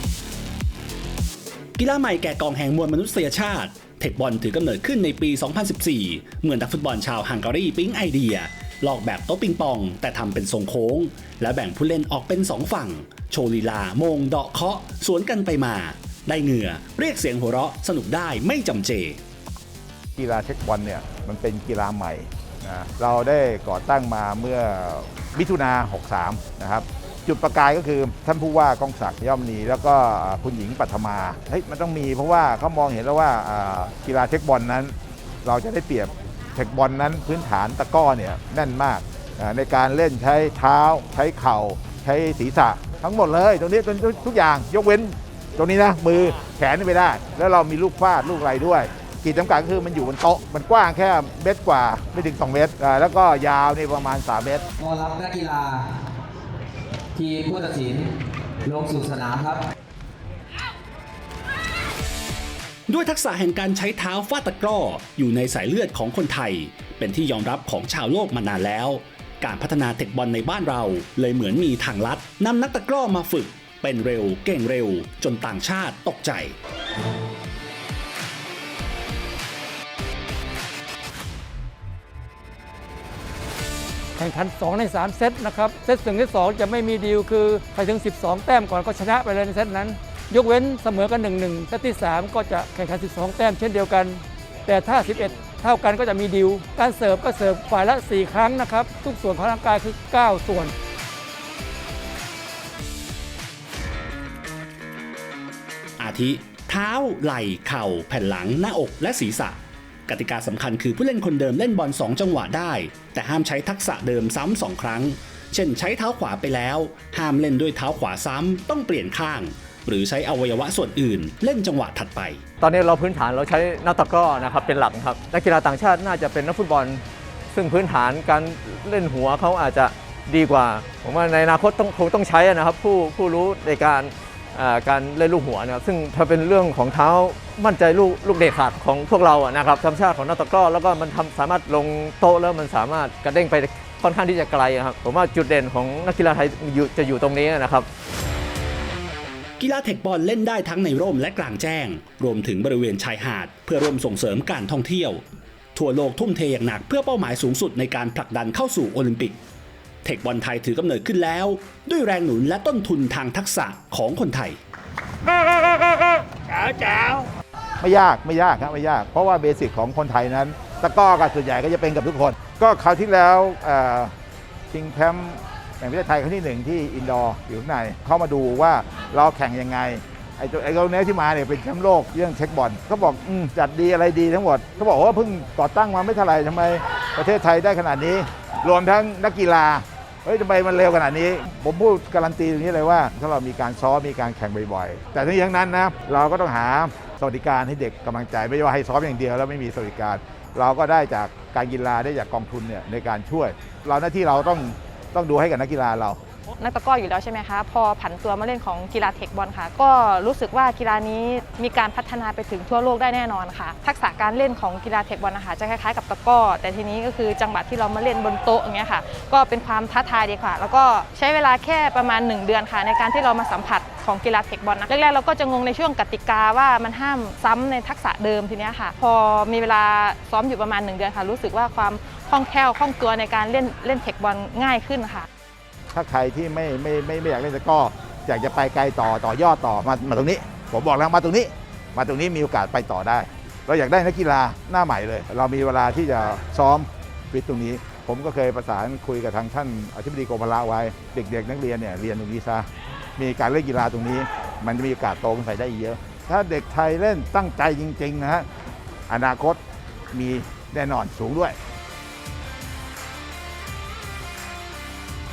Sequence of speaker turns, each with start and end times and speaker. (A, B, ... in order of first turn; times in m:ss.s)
0:01.8-0:19.2 A
0:20.2-0:54.6 B
0:54.8-0:55.9 C
0:57.1-0:58.1 C
0:58.6-0:59.6 C
1:02.9-1:16.5 A
1:24.2-1:40.7 D
1:46.0-2:02.4 A
2:02.6-2:27.9 E
2:29.6-2:35.2 A
2:35.7-2:39.4 A
2:40.0-2:44.6 A
2:46.5-2:47.3 B
2:47.8-2:54.1 B
2:54.7-3:26.2 B
3:26.6-3:55.3 F
3:55.9-4:12.6 B
4:13.2-4:18.5 B
4:19.1-4:19.6 B
4:20.1-4:21.6 B